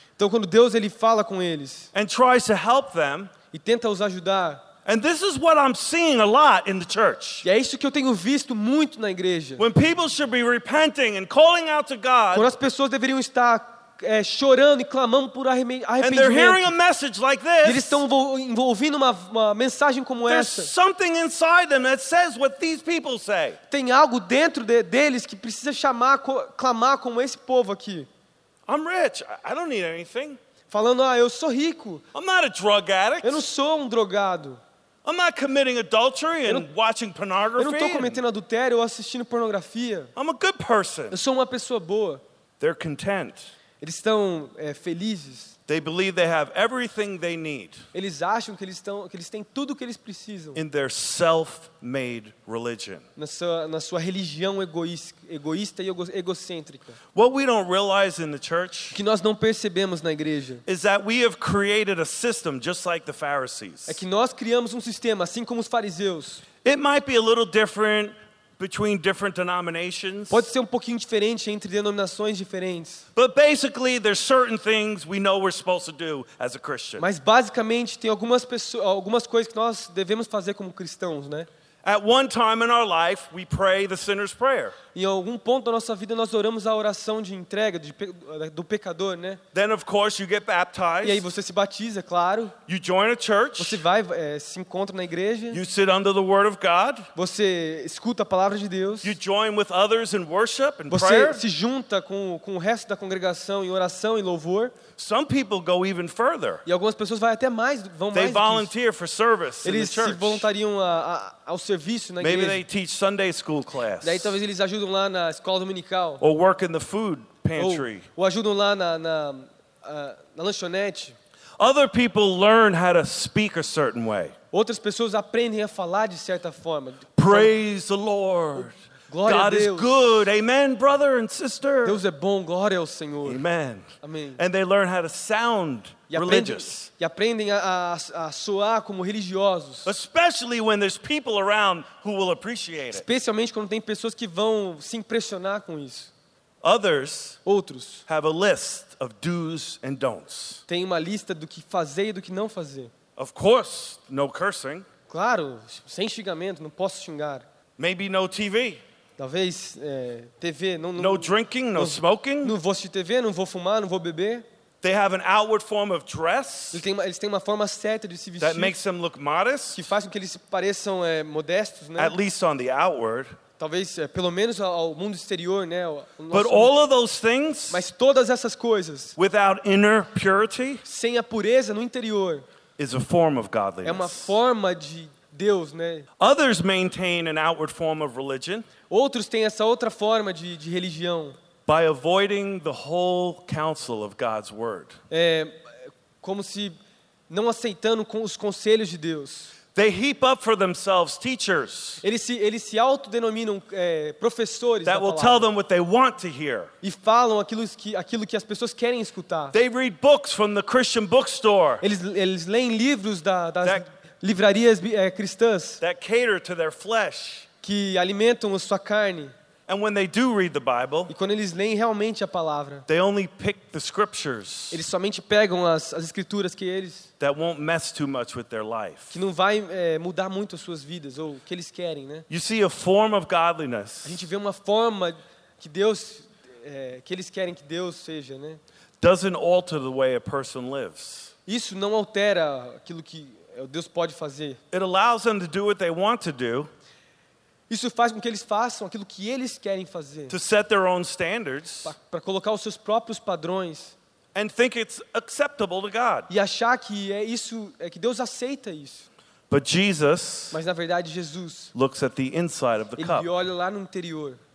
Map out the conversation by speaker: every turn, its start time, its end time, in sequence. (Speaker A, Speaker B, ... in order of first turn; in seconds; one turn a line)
Speaker A: 0.2-1.9
Speaker B: 1.9-3.3
Speaker A: 3.5-4.6
Speaker B: 4.8-7.5
Speaker A: 7.4-9.7
Speaker B: 9.6-12.5
Speaker A: 12.3-16.7
Speaker B: 16.0-18.0
Speaker A: 17.6-20.7
Speaker B: 20.3-23.6
Speaker A: 23.7-28.1
Speaker B: 28.7-30.4
Speaker A: 30.7-32.1
Speaker B: 32.1-33.4
Speaker A: 33.2-34.6
Speaker B: 35.0-38.2
Speaker A: 37.6-40.1
Speaker B: 40.2-41.2
Speaker A: 41.1-42.2
Speaker B: 42.6-43.5
Speaker A: 43.8-45.6
Speaker B: 45.7-47.8
Speaker A: 47.9-50.6
Speaker B: 50.5-53.0
Speaker A: 53.2-57.0
Speaker B: 57.1-59.0
Speaker A: 58.9-60.6
Speaker B: 60.7-64.0
Speaker A: 63.9-66.4
Speaker B: 66.6-70.5
Speaker A: 70.3-73.0
Speaker B: 73.2-77.1
Speaker A: 77.0-81.5
Speaker B: 81.8-84.8
Speaker A: 85.0-89.4
Speaker B: 89.5-91.2
Speaker A: 91.0-92.6
Speaker B: 92.7-93.8
Speaker A: 93.6-95.6
Speaker B: 95.5-97.1
Speaker A: 97.2-99.2
Speaker B: 99.0-101.4
Speaker A: 100.9-104.8
Speaker B: 105.0-106.6
Speaker A: 106.7-108.7
Speaker B: 108.1-110.5
Speaker A: 109.6-112.6
Speaker B: 112.2-114.3
Speaker A: 114.0-116.2
Speaker B: 116.2-118.1
Speaker A: 117.6-121.2
Speaker B: 121.6-124.4
Speaker A: 124.5-127.5
Speaker B: 127.2-132.0
Speaker A: 129.1-130.0
Speaker A: 131.8-133.4
Speaker B: 133.2-136.9
Speaker A: 134.0-134.4
Speaker A: 136.1-139.9
Speaker B: 139.8-143.1
Speaker A: 142.9-146.1
Speaker B: 146.6-147.4
Speaker A: 147.4-148.0
Speaker B: 148.1-150.6
Speaker A: 150.7-152.9
Speaker B: 153.2-154.9
Speaker A: 155.1-157.5
Speaker B: 157.8-158.8
Speaker A: 159.2-164.5
Speaker B: 161.0-162.6
Speaker B: 164.8-166.8
Speaker A: 166.7-168.8
Speaker B: 168.4-169.9
Speaker A: 169.7-172.2
Speaker B: 172.0-173.4
Speaker A: 173.6-176.7
Speaker B: 176.3-177.8
Speaker A: 177.7-179.2
Speaker B: 179.2-180.8
Speaker A: 180.8-182.4
Speaker B: 182.8-184.3
Speaker A: 183.8-186.1
Speaker B: 186.2-188.7
Speaker A: 188.9-191.4
Speaker B: 191.7-195.0
Speaker A: 195.1-195.7
Speaker A: 196.2-196.8
Speaker A: 197.3-199.5
Speaker B: 199.7-202.0
Speaker A: 202.0-205.5
Speaker B: 204.9-206.7
Speaker A: 206.8-209.6
Speaker B: 209.5-211.8
Speaker A: 211.8-215.8
Speaker B: 215.8-217.5
Speaker A: 217.6-219.3
Speaker B: 219.7-221.1
Speaker A: 221.1-222.8
Speaker B: 222.9-224.8
Speaker A: 224.7-227.1
Speaker B: 227.2-229.2
Speaker A: 229.1-232.3
Speaker B: 232.3-234.2
Speaker A: 234.1-238.6
Speaker B: 239.0-241.3
Speaker A: 241.5-244.6
Speaker B: 244.7-246.7
Speaker A: 247.7-250.3
Speaker B: 250.3-251.9
Speaker A: 251.8-254.0
Speaker B: 254.3-256.3
Speaker A: 256.3-259.1
Speaker B: 259.5-260.6
Speaker A: 260.5-261.7
Speaker B: 261.7-263.3
Speaker A: 263.0-264.4